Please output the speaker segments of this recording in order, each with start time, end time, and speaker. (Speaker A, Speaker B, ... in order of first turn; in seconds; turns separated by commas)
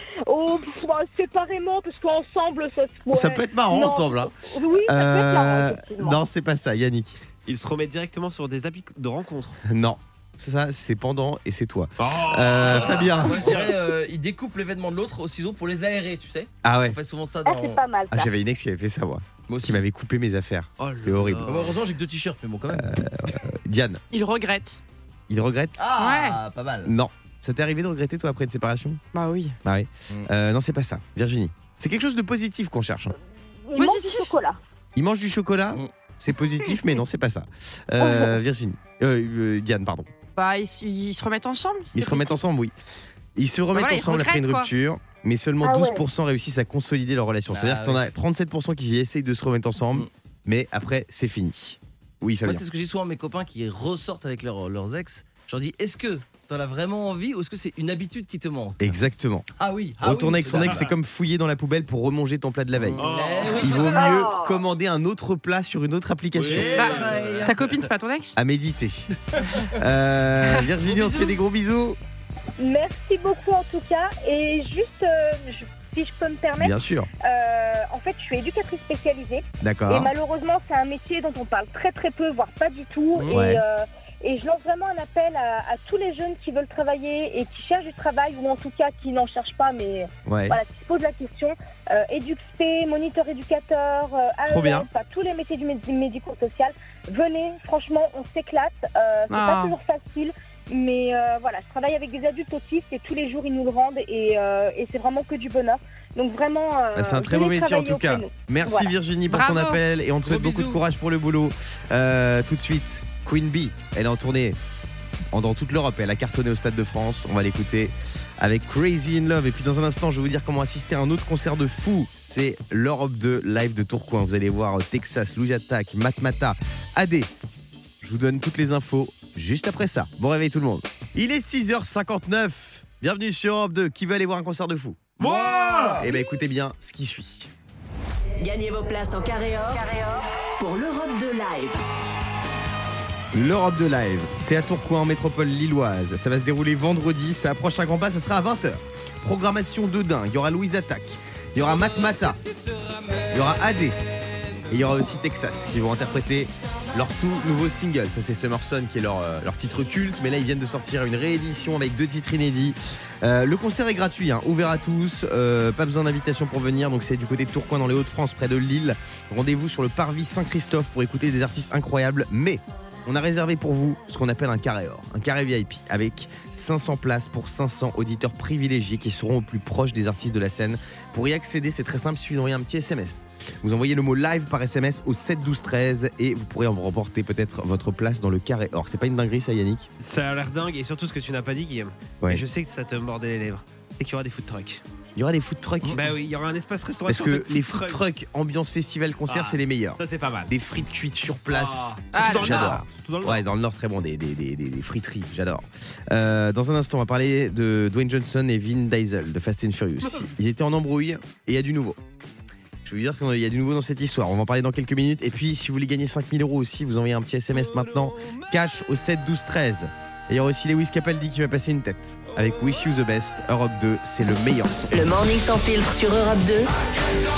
Speaker A: 0.3-6.2, Speaker B: 3.1-4.3, Speaker B: 4.9-7.2, Speaker C: 7.5-9.6, Speaker B: 9.7-13.6, Speaker C: 12.0-13.8, Speaker D: 12.7-17.8, Speaker B: 16.6-17.0, Speaker A: 17.5-18.3, Speaker B: 18.1-21.5, Speaker D: 19.5-19.8, Speaker C: 20.8-21.8, Speaker D: 21.4-23.0, Speaker B: 22.7-24.0, Speaker E: 24.1-24.8, Speaker B: 25.3-25.8, Speaker D: 25.8-26.9, Speaker E: 26.0-26.4, Speaker B: 26.8-29.0, Speaker E: 29.1-29.6, Speaker B: 29.6-33.2, Speaker A: 33.7-34.6, Speaker E: 33.8-34.3, Speaker B: 35.0-40.1, Speaker A: 38.0-38.4, Speaker E: 40.4-42.4, Speaker B: 41.9-42.7, Speaker B: 43.4-52.6, Speaker E: 43.7-44.7, Speaker A: 45.6-46.0, Speaker D: 47.5-48.1, Speaker D: 52.4-58.9, Speaker B: 58.8-59.5, Speaker D: 59.6-60.9, Speaker B: 60.0-66.9, Speaker C: 63.0-64.1, Speaker D: 63.0-64.2, Speaker A: 64.0-64.5, Speaker C: 66.4-67.8, Speaker D: 66.4-67.7, Speaker E: 66.8-68.4, Speaker B: 68.3-69.1, Speaker B: 69.7-72.0, Speaker C: 70.9-71.2, Speaker A: 72.6-108.9, Speaker B: 76.6-77.1, Speaker B: 79.6-80.1, Speaker D: 83.2-83.4, Speaker B: 83.3-83.6, Speaker B: 90.3-90.6, Speaker B: 94.5-94.9, Speaker E: 99.3-99.8, Speaker B: 106.9-114.6, Speaker E: 109.3-109.8, Speaker D: 110.2-110.8, Speaker B: 115.3-127.3, Speaker B: 128.0-137.5, Speaker C: 135.2-136.1, Speaker F: 138.4-140.1, Speaker F: 140.6-141.8, Speaker B: 143.3-152.4, Speaker B: 153.3-154.0, Speaker B: 154.7-189.9, Speaker C: 190.0-194.8, Speaker B: 195.2-196.1, Speaker C: 195.9-198.0, Speaker B: 197.1-212.0, Speaker C: 199.3-200.5, Speaker C: 201.5-203.4, Speaker E: 202.1-202.8, Speaker B: 212.8-224.8, Speaker F: 224.9-226.7